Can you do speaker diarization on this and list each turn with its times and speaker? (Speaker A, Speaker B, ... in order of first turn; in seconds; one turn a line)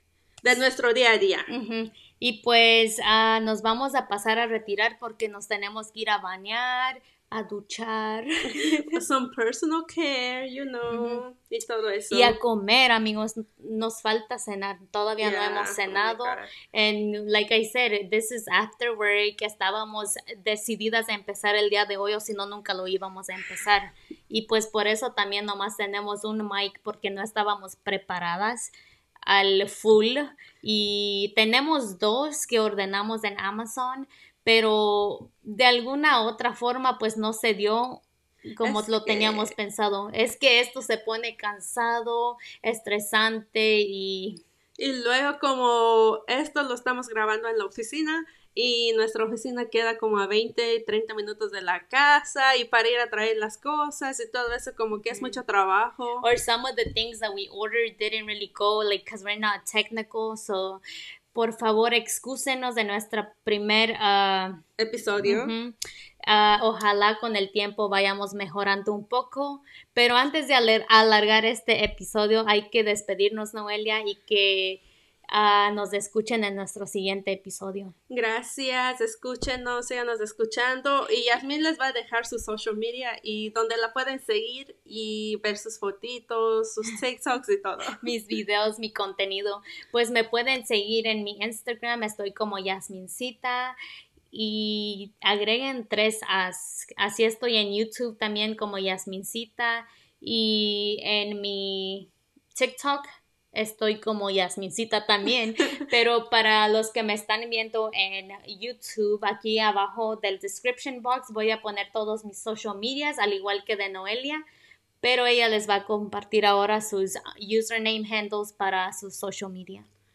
Speaker A: 0.4-1.5
Speaker B: 1.5-8.8
Speaker A: 8.9-12.4
Speaker B: 10.9-11.2
Speaker B: 12.1-28.7
Speaker A: 15.2-16.5
Speaker B: 29.3-44.4
Speaker A: 38.6-39.5
Speaker A: 44.8-56.2
Speaker B: 55.0-55.4
Speaker B: 56.2-60.8
Speaker B: 61.3-64.6
Speaker A: 64.8-65.5
Speaker B: 65.2-65.7
Speaker B: 66.3-77.9
Speaker A: 78.1-88.0
Speaker B: 88.0-93.8
Speaker B: 94.3-114.4
Speaker B: 115.0-119.8